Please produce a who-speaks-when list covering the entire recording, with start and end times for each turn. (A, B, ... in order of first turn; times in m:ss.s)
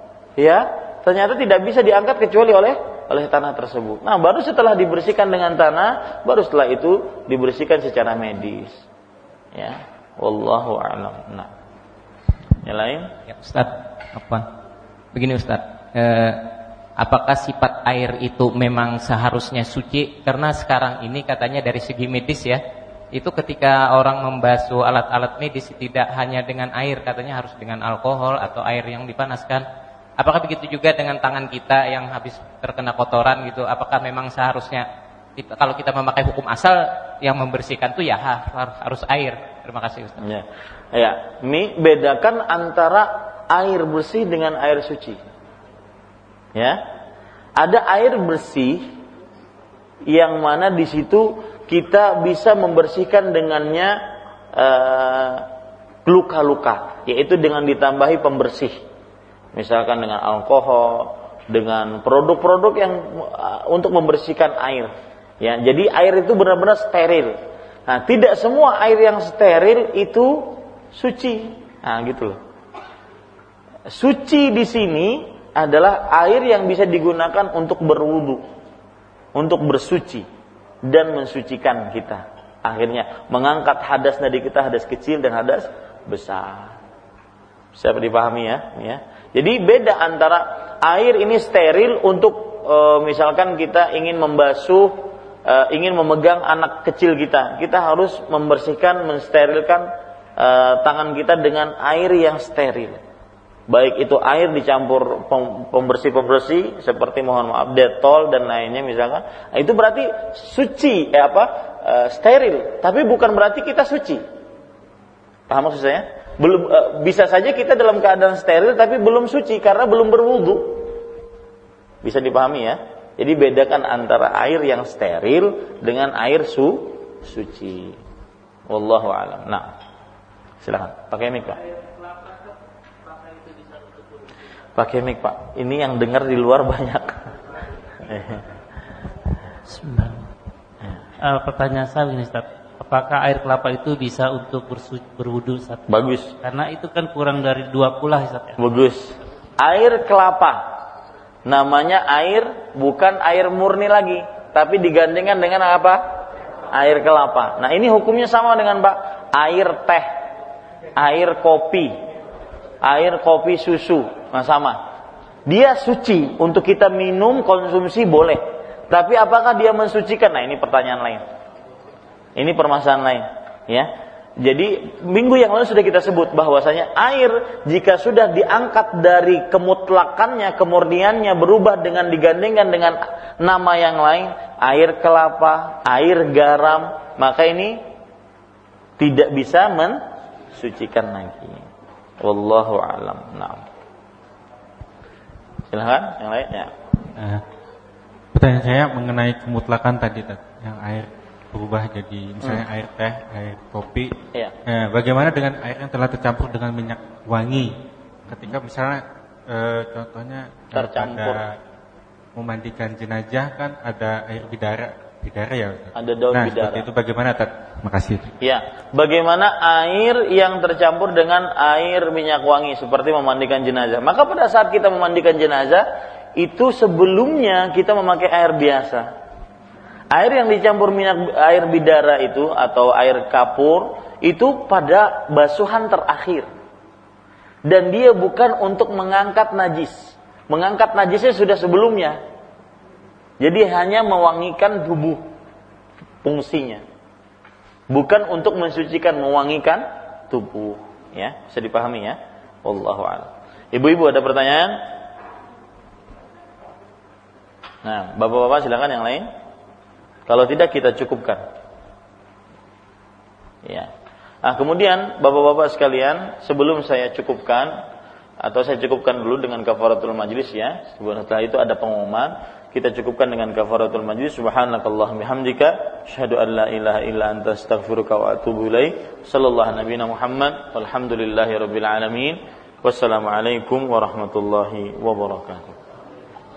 0:00.4-0:08.8 A
0:09.6-0:11.5 A
0:12.6-0:13.1 A
0:13.3-0:14.5 B
0:15.1-0:22.6 B
0:23.1-0:29.6 B
0:30.2-0:34.9 B
0:35.4-0:40.2 B
0:40.2-0:45.2 A
0:47.6-0:48.8 A
0:50.1-0:54.0 A
0:54.5-0:55.5 A
0:56.1-0:58.8 A
0:59.6-1:04.9 A
1:05.4-1:07.4 A
1:07.9-1:12.4 A
1:13.9-1:18.4 A
1:19.4-1:20.3 A
1:20.8-1:26.8 A
1:27.8-1:39.8 A
1:40.4-1:43.0 A
1:43.7-1:54.2 A
1:55.5-2:00.9 A
2:02.0-2:08.0 A
2:08.7-2:09.7 A
2:10.6-2:11.6 A
2:14.8-2:17.2 A
2:18.0-2:18.4 A
2:19.7-2:20.2 C
2:21.2-2:25.8 C
2:25.9-2:26.4 A
2:26.4-2:28.6 C
2:28.6-2:30.6 A
2:31.5-2:36.0 A
2:36.7-2:40.1 A
2:41.0-2:41.9 A
2:42.8-2:44.8 A
2:45.5-2:51.2 A
2:52.4-3:07.8 A
3:09.0-3:10.0 A
3:10.5-3:11.6 A
3:12.2-3:13.6 A
3:15.7-3:16.7 A
3:17.2-3:17.4 D
3:18.4-3:24.2 D
3:24.7-3:27.7 D
3:28.3-3:31.5 D
3:30.7-3:31.4 A
3:32.4-3:38.3 D
3:36.0-3:36.8 A
3:38.4-3:45.8 A
3:46.4-3:49.1 A
3:50.1-3:56.5 A
3:57.7-4:02.2 A
4:03.4-4:05.2 A
4:06.2-4:06.8 A
4:07.9-4:14.8 A
4:17.8-4:19.3 A
4:20.3-4:21.4 A
4:24.4-4:27.7 A
4:28.4-4:45.8 A